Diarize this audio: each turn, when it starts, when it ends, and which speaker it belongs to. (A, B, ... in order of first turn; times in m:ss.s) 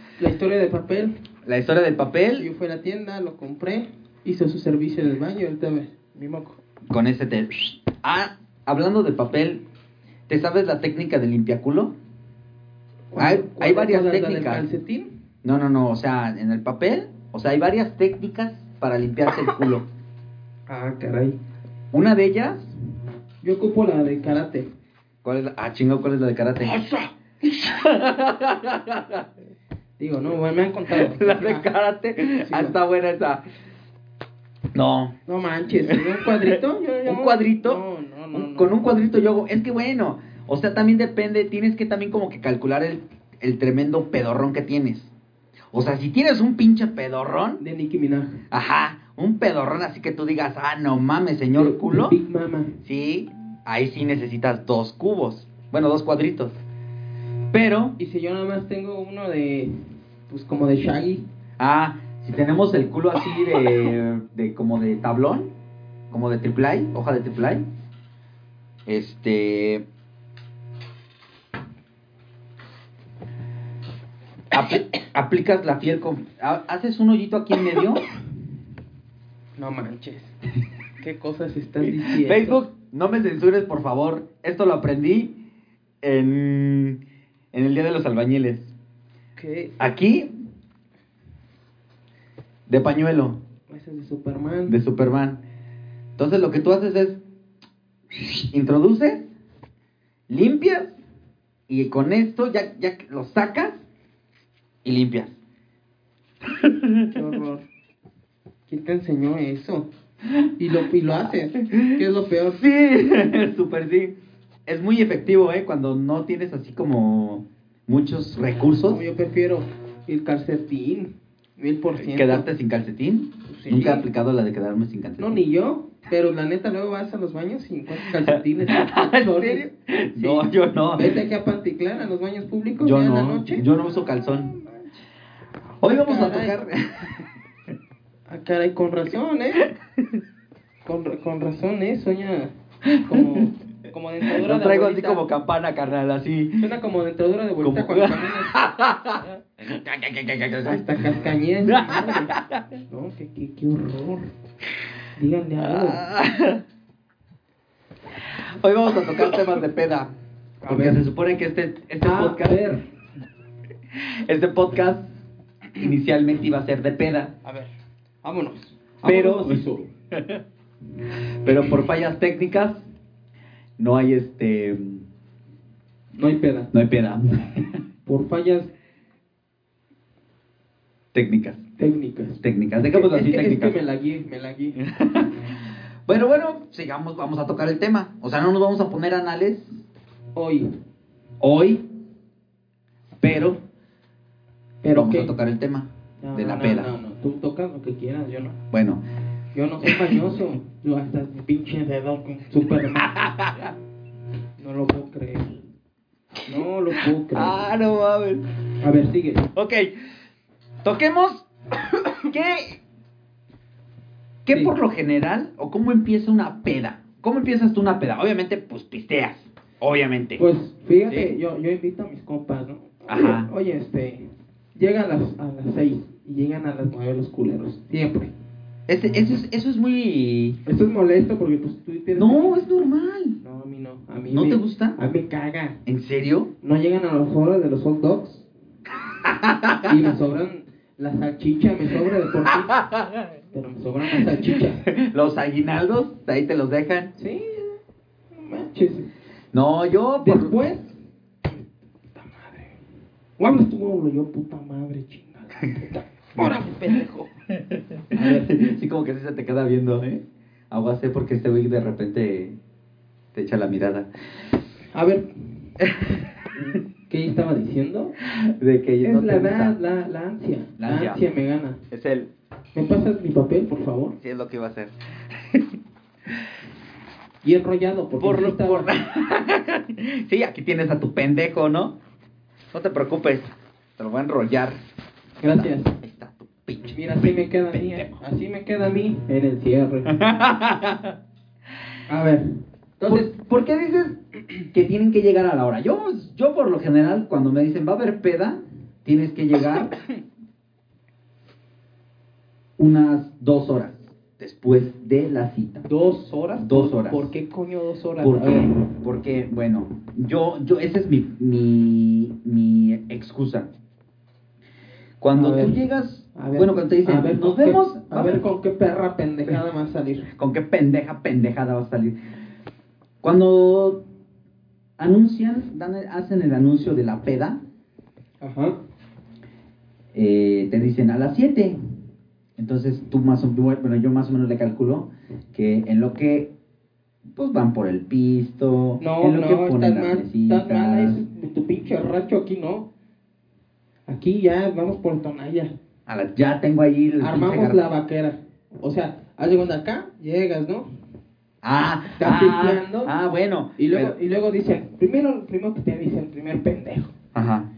0:00.2-0:01.2 A
0:01.5-0:02.5 B
0:02.4-0:06.6 A
0:06.9-0:09.6 B
0:10.3-0:11.9 B
0:13.1-0:15.1 A
0:13.2-0:14.7 B
0:15.4-0:19.9 B
0:20.7-0:21.4 A
0:21.9-0:22.7 B
0:23.4-0:24.7 A
0:25.2-0:26.8 B
0:27.4-0:29.2 B
0:30.0-0:31.7 A
0:30.9-0:33.4 B
0:32.4-0:32.8 A
0:34.7-0:35.1 B
0:35.3-0:38.8 A
0:35.9-0:37.8 B
0:38.3-0:45.1 B
0:45.7-0:47.6 B
0:47.6-0:48.4 A
0:48.5-0:52.2 B
0:51.6-0:52.8 A
0:52.8-0:56.6 B
0:57.5-0:58.0 B
0:58.0-0:59.8 A
1:00.3-1:01.2 A
1:01.6-1:05.5 B
1:06.1-1:07.6 B
1:08.9-1:09.8 B
1:14.5-1:18.0 B
1:19.6-1:20.4 A
1:21.0-1:22.6 A
1:21.8-1:25.4 B
1:26.0-1:27.0 B
1:27.5-1:28.7 B
1:29.4-1:29.8 A
1:29.8-1:30.3 B
1:32.7-1:33.4 B
1:33.7-1:34.8 A
1:34.7-1:35.4 B
1:36.2-1:37.2 B
1:38.1-1:39.3 B
1:40.3-1:41.0 B
1:41.7-1:43.8 B
1:44.8-1:45.4 B
1:46.5-1:47.1 B
1:47.1-1:47.6 A
1:48.7-1:49.9 A
1:50.6-1:52.6 A
1:51.6-1:52.0 B
1:52.6-1:54.2 B
1:54.7-1:59.0 B
1:58.9-2:02.5 A
2:02.0-2:05.4 B
2:03.5-2:04.1 A
2:05.2-2:14.9 A
2:08.3-2:11.2 B
2:12.8-2:14.5 B
2:15.8-2:17.2 B
2:15.8-2:16.6 A
2:18.3-2:19.7 A
2:20.8-2:22.5 A
2:22.9-2:23.4 B
2:23.0-2:25.2 A
2:24.2-2:26.7 B
2:26.6-2:28.5 A
2:27.6-2:31.0 B
2:30.6-2:32.4 A
2:31.7-2:32.7 B
2:32.9-2:34.3 A
2:35.2-2:36.1 A
2:35.6-2:36.6 B
2:38.2-2:40.1 B
2:40.6-2:41.1 A
2:40.7-2:42.8 B
2:42.0-2:42.8 A
2:44.0-2:45.1 B
2:45.8-2:47.3 B
2:47.4-2:47.7 A
2:48.2-2:49.9 A
2:49.0-2:50.4 B
2:51.4-2:52.9 B
2:53.8-2:55.1 B
2:56.2-2:56.7 A
2:56.7-2:57.7 B
2:58.1-2:58.7 A
3:01.1-3:01.6 B
3:01.8-3:04.8 A
3:02.4-3:03.8 B
3:04.8-3:05.5 B
3:06.1-3:09.9 B
3:10.4-3:10.7 A
3:11.4-3:11.8 B
3:13.2-3:13.6 B
3:14.8-3:15.3 A
3:14.9-3:16.9 B
3:16.2-3:18.6 A
3:18.7-3:19.0 B
3:19.5-3:23.2 A
3:19.8-3:20.2 B
3:23.0-3:23.7 B
3:24.6-3:25.6 A
3:26.5-3:27.7 A
3:27.3-3:28.4 B
3:28.8-3:29.5 A
3:29.5-3:30.0 B
3:30.8-3:31.5 B
3:32.1-3:32.8 B
3:34.5-3:40.4 B
3:34.5-3:34.8 A
3:40.4-3:48.3 A
3:41.1-3:41.4 B
3:43.1-3:43.5 B
3:48.9-3:50.6 B
3:50.6-3:52.6 A
3:52.1-3:53.4 B
3:53.4-3:55.8 A
3:54.3-3:55.0 B
3:55.9-3:56.5 B
3:56.6-3:58.5 A
3:59.2-4:00.1 B
3:59.9-4:02.7 A
4:02.5-4:03.2 B
4:03.5-4:04.8 A
4:04.1-4:07.1 B
4:07.2-4:07.8 A
4:08.3-4:09.1 A
4:09.5-4:10.6 B
4:10.2-4:11.5 A
4:12.2-4:12.7 A
4:13.4-4:17.3 A
4:18.1-4:18.5 A
4:18.1-4:22.6 B
4:23.3-4:24.1 B
4:24.9-4:25.3 A
4:25.8-4:26.2 B
4:26.7-4:28.2 A
4:28.4-4:29.8 B
4:29.0-4:31.8 A
4:30.8-4:31.2 B
4:31.9-4:32.3 B
4:32.8-4:34.2 A
4:34.2-4:35.7 B
4:37.4-4:38.9 A
4:38.2-4:42.0 B
4:42.7-4:44.8 B
4:45.4-4:45.9 A
4:45.5-4:48.1 B
4:46.9-4:50.1 A
4:50.1-4:51.1 B
4:52.1-4:52.5 A
4:53.0-4:53.3 A
4:53.0-4:54.2 B
4:54.7-4:59.9 B
5:02.8-5:05.8 B
5:05.8-5:08.8 A
5:06.6-5:07.3 B
5:08.2-5:13.7 B
5:15.2-5:18.4 B
5:15.3-5:15.8 A
5:16.3-5:20.3 A
5:20.4-5:22.2 B
5:23.2-5:24.0 B
5:25.0-5:27.6 B
5:28.4-5:28.8 A
5:30.1-5:31.8 B
5:32.6-5:36.5 B
5:37.3-5:41.2 B
5:39.0-5:42.9 A
5:44.1-5:45.7 A
5:46.1-5:47.8 B
5:47.2-5:50.9 A
5:51.6-5:54.2 B
5:52.2-5:53.1 A
5:53.8-5:57.2 A
5:57.3-5:57.7 B